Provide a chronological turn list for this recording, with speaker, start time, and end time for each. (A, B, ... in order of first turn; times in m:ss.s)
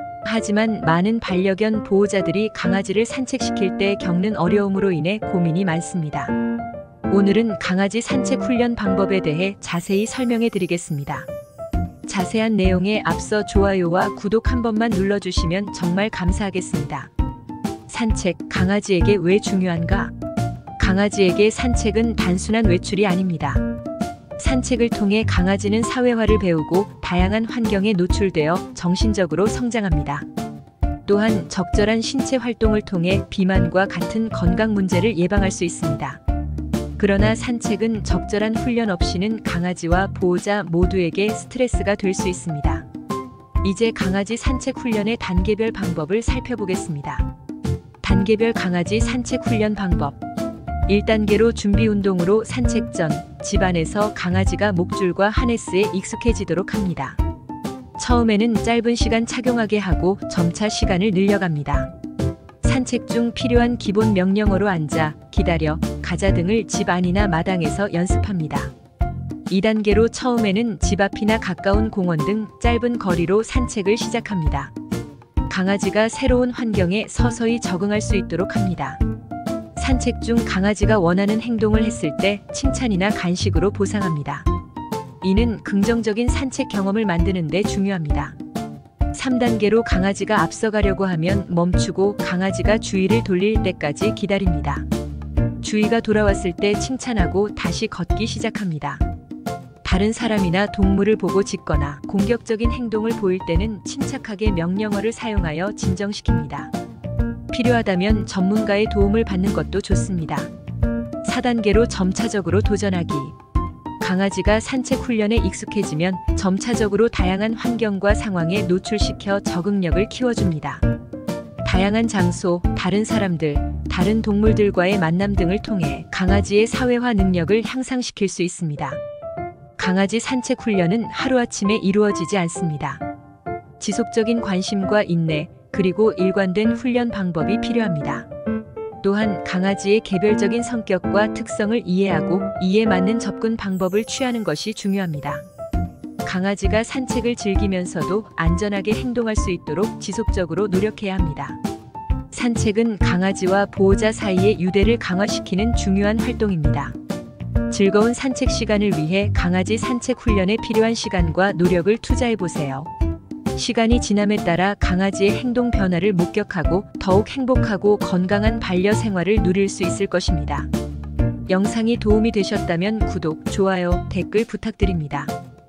0:00.2-0:06.3 A
0:07.1-0:11.3 A
0:12.0-0:17.1 A
0:17.9-0:20.1 A
0:20.8-0:23.6 A
0:24.4-0:30.3 A
0:31.1-0:36.2 A
0:37.0-0:42.9 A
0:43.6-0:47.3 A
0:48.0-0:50.2 A
0:50.9-0:57.2 A
0:58.0-1:01.9 A
1:02.6-1:08.7 A
1:09.5-1:14.7 A
1:15.5-1:19.0 A
1:19.8-1:24.5 A
1:25.2-1:28.4 A
1:29.1-1:34.9 A
1:35.6-1:39.0 A
1:39.8-1:46.7 A
1:47.5-1:50.5 A
1:51.2-1:53.3 A
1:54.0-2:00.8 A
2:01.6-2:09.0 A
2:09.8-2:13.0 A
2:13.8-2:18.3 A
2:19.0-2:25.5 A
2:26.2-2:31.6 A
2:32.3-2:37.0 A
2:37.7-2:42.9 A
2:43.5-2:50.7 A
2:51.5-2:55.3 A